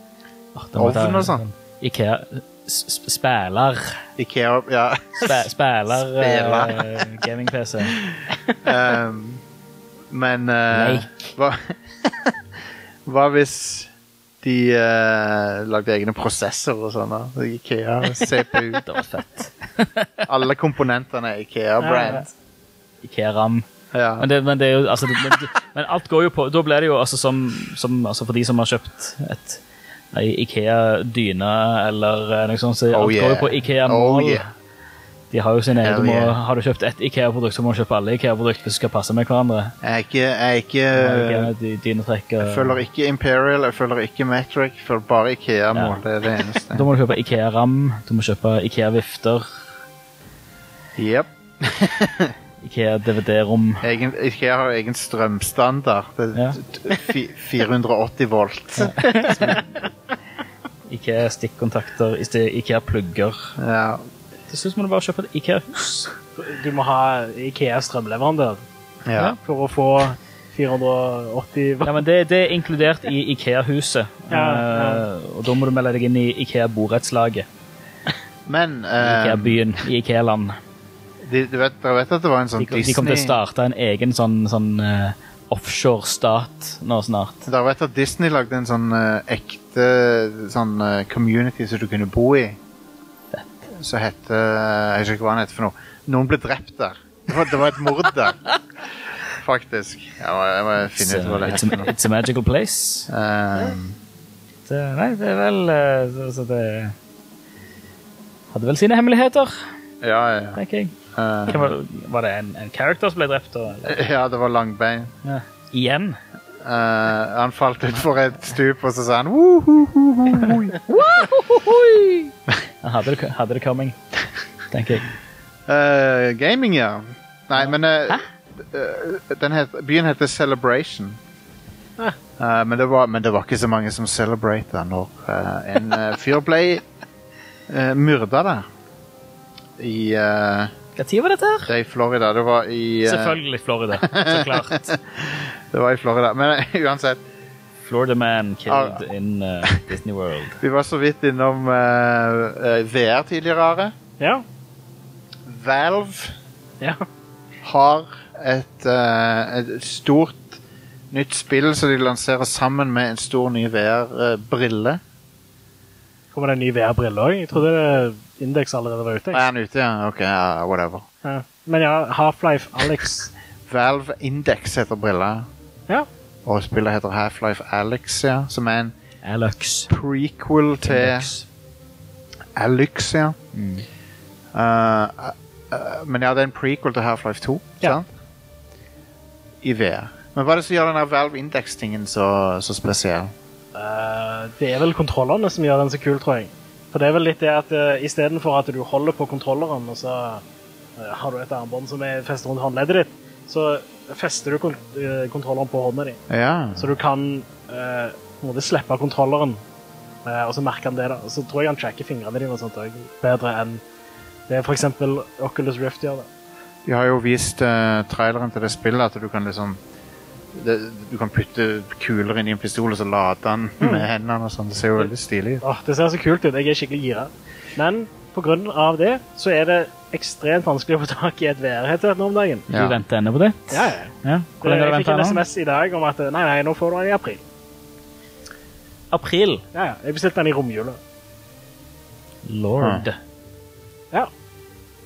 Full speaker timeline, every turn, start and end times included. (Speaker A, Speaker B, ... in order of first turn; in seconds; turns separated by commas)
Speaker A: 0.6-4.0, Speaker B: 0.8-1.4, Speaker B: 4.2-7.0, Speaker A: 5.2-8.0, Speaker B: 8.6-9.4, Speaker B: 10.1-12.4, Speaker A: 10.7-11.3, Speaker B: 13.1-13.9, Speaker B: 14.4-18.8, Speaker A: 18.8-20.3, Speaker B: 20.3-22.3, Speaker C: 21.8-22.2, Speaker A: 23.0-23.7, Speaker B: 23.9-24.3, Speaker A: 24.2-29.6, Speaker A: 30.1-34.5, Speaker B: 32.9-34.5, Speaker A: 35.3-39.7, Speaker B: 35.8-36.4, Speaker B: 39.8-41.5, Speaker A: 41.0-42.8, Speaker B: 42.4-46.9, Speaker A: 46.7-49.5, Speaker B: 51.0-52.4, Speaker A: 52.6-53.9, Speaker B: 53.8-59.6, Speaker A: 56.3-56.6, Speaker A: 58.8-59.7, Speaker A: 60.9-63.5, Speaker B: 63.6-64.0, Speaker A: 64.5-66.2, Speaker C: 66.4-68.6, Speaker B: 69.1-69.4, Speaker C: 69.4-72.0, Speaker A: 71.8-77.5, Speaker C: 74.3-75.1, Speaker B: 78.5-79.6, Speaker A: 79.0-80.6, Speaker B: 81.2-83.4, Speaker A: 82.6-87.5, Speaker B: 87.5-92.6, Speaker A: 93.3-93.7, Speaker B: 93.7-98.4, Speaker B: 99.3-101.9, Speaker A: 100.9-103.1, Speaker B: 103.1-104.0, Speaker A: 104.7-107.0, Speaker A: 108.5-109.7, Speaker B: 110.0-110.6, Speaker A: 110.5-110.9, Speaker B: 111.1-111.8, Speaker A: 111.5-114.0, Speaker B: 113.8-115.1, Speaker A: 115.2-116.2, Speaker B: 116.6-120.8, Speaker A: 120.8-124.0, Speaker A: 124.7-125.1, Speaker B: 125.7-131.2, Speaker B: 132.4-136.8, Speaker B: 137.7-138.7, Speaker B: 139.8-140.7, Speaker A: 141.0-141.7, Speaker B: 141.7-143.4, Speaker A: 143.1-144.9, Speaker B: 144.0-147.2, Speaker A: 147.8-150.6, Speaker B: 148.7-149.1, Speaker B: 150.6-153.9, Speaker C: 154.2-154.4, Speaker B: 155.5-156.4, Speaker B: 157.6-160.6, Speaker B: 161.1-165.0, Speaker C: 166.3-169.5, Speaker B: 169.3-171.1, Speaker C: 171.2-173.3, Speaker B: 173.7-175.5, Speaker B: 176.4-178.9, Speaker A: 179.2-179.9, Speaker B: 179.9-181.3, Speaker A: 180.9-181.4, Speaker B: 182.6-183.4, Speaker A: 183.5-183.9, Speaker B: 184.5-188.1, Speaker B: 189.6-193.3, Speaker C: 193.7-200.4, Speaker C: 201.0-206.2, Speaker B: 206.3-206.9, Speaker C: 206.8-209.6, Speaker C: 210.2-213.8, Speaker C: 214.5-216.3, Speaker B: 216.8-219.8, Speaker B: 220.5-225.6, Speaker C: 223.8-224.1, Speaker C: 225.6-232.7, Speaker B: 232.7-233.0, Speaker A: 232.7-235.4, Speaker C: 233.7-237.4, Speaker A: 239.1-239.6, Speaker C: 239.7-241.0, Speaker A: 242.4-243.2, Speaker B: 242.8-243.1